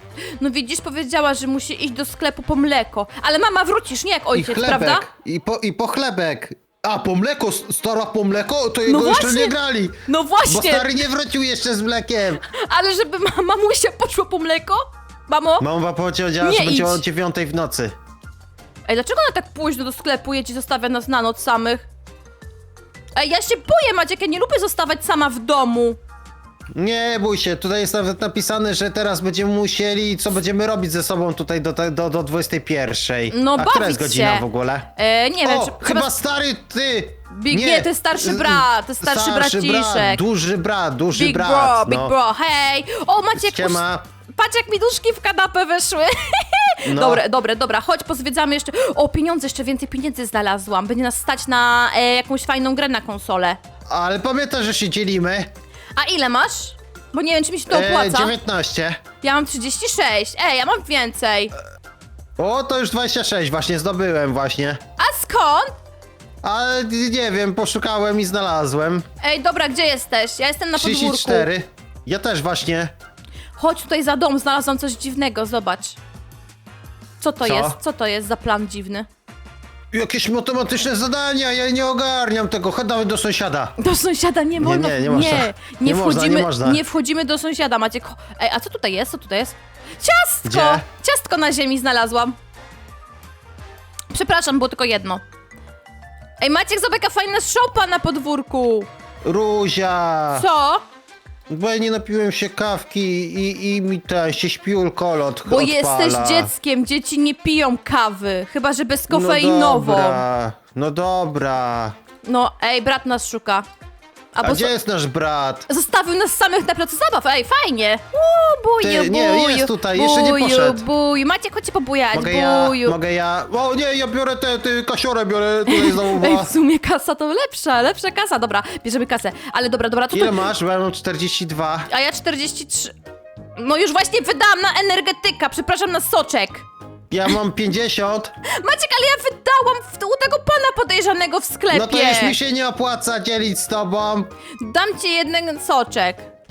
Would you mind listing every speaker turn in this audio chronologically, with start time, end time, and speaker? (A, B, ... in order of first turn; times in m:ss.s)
0:00.2-0:05.0 A
0:04.3-0:12.4 B
0:08.8-0:11.0 A
0:12.4-0:15.7 A
0:15.6-0:18.0 B
0:16.4-0:17.0 A
0:18.9-0:21.9 A
0:23.1-0:26.0 A
0:26.7-0:34.9 B
0:33.3-0:36.1 A
0:35.4-0:42.1 B
0:37.3-0:40.2 A
0:41.1-0:53.6 A
0:43.3-0:44.0 B
0:46.8-0:47.2 B
0:53.9-0:55.5 B
0:56.0-0:58.3 A
0:57.7-0:59.0 B
0:59.2-1:01.5 A
1:02.4-1:04.8 B
1:05.0-1:05.7 A
1:06.4-1:09.0 B
1:09.2-1:11.5 A
1:10.8-1:12.9 B
1:13.6-1:16.0 A
1:17.2-1:19.1 A
1:17.4-1:17.8 B
1:19.9-1:23.8 B
1:23.8-1:32.4 A
1:24.6-1:26.8 B
1:30.4-1:30.8 B
1:34.1-1:35.2 A
1:36.4-1:38.9 A
1:39.2-1:40.4 B
1:40.3-1:40.8 A
1:41.5-1:46.5 B
1:45.4-1:50.2 A
1:49.1-1:52.0 B
1:52.2-1:53.6 A
1:54.3-1:54.7 A
1:54.4-1:55.7 B
1:55.7-2:03.0 A
1:58.8-2:00.8 B
2:02.1-2:06.5 B
2:05.7-2:10.4 A
2:10.1-2:11.9 B
2:11.9-2:12.9 A
2:13.6-2:16.6 A
2:17.1-2:18.3 B
2:18.4-2:22.4 A
2:21.7-2:24.3 B
2:24.6-2:26.2 A